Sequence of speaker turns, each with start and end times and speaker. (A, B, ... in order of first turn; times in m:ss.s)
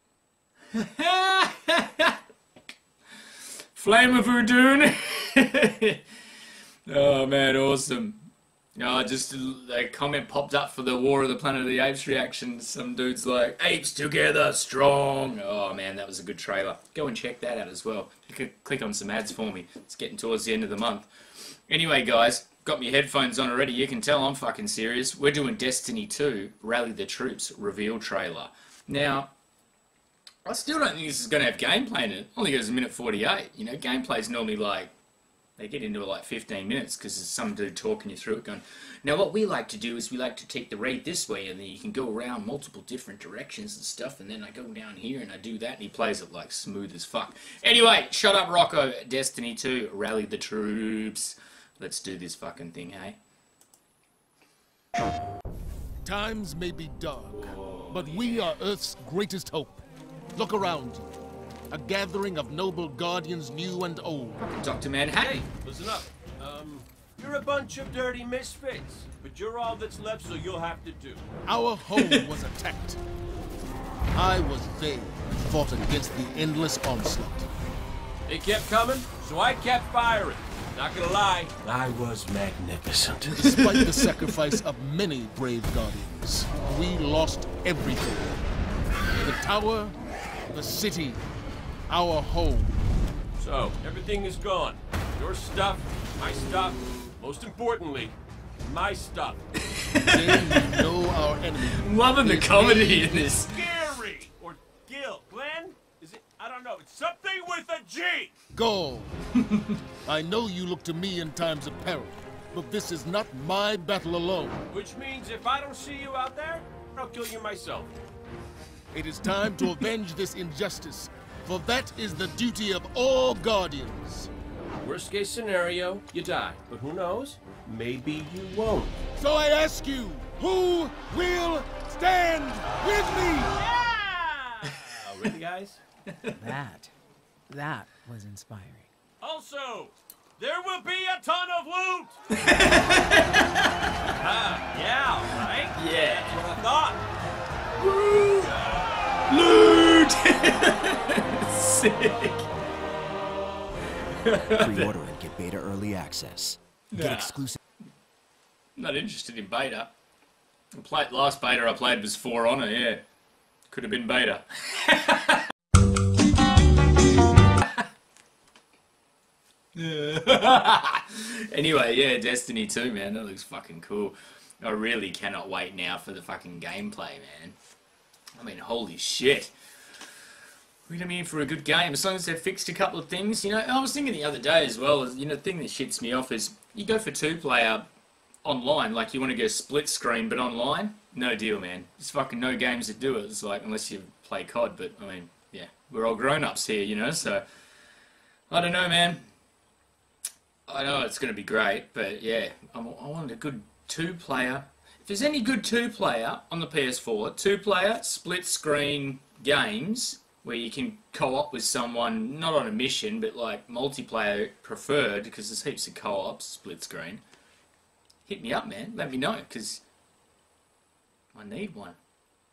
0:00.7-0:02.2 A
0:03.3-0:06.0 A
0:06.9-0:08.2 A
0:08.8-0:29.3 A
0:30.5-0:34.9 A
0:35.6-0:53.2 A
0:56.0-1:01.1 B
1:01.7-1:04.4 B
1:04.4-1:05.4 A
1:05.1-1:11.2 C
1:11.5-1:13.0 B
1:14.1-1:17.5 B
1:18.3-1:23.5 C
1:23.3-1:28.4 B
1:23.5-1:24.4 A
1:29.2-1:30.0 B
1:30.5-1:31.2 B
1:31.9-1:32.8 B
1:33.4-1:39.4 C
1:39.7-1:40.8 A
1:40.0-1:43.2 B
1:41.7-1:43.7 A
1:43.0-1:48.3 C
1:48.5-1:49.2 B
1:50.0-1:54.6 B
1:54.7-1:58.0 C
1:58.9-2:04.3 B
1:59.4-1:59.8 A
2:04.8-2:09.0 C
2:09.2-2:13.6 B
2:13.5-2:15.8 C
2:16.1-2:16.5 A
2:16.4-2:16.9 D
2:17.5-2:18.9 D
2:19.2-2:22.2 C
2:22.4-2:23.4 A
2:24.2-2:27.0 C
2:25.8-2:26.4 A
2:27.8-2:28.6 A
2:29.3-2:32.5 A
2:34.0-2:35.0 A
2:34.3-2:37.6 E
2:36.9-2:37.5 A
2:38.8-2:39.9 A
2:40.8-2:43.0 A
2:43.7-2:45.4 A
2:49.8-2:57.6 A
2:58.4-2:59.5 A
3:00.9-3:07.9 A
3:08.4-3:17.4 A
3:18.5-3:19.2 A
3:20.7-3:37.2 A
3:38.3-3:39.8 A
3:41.4-3:42.0 A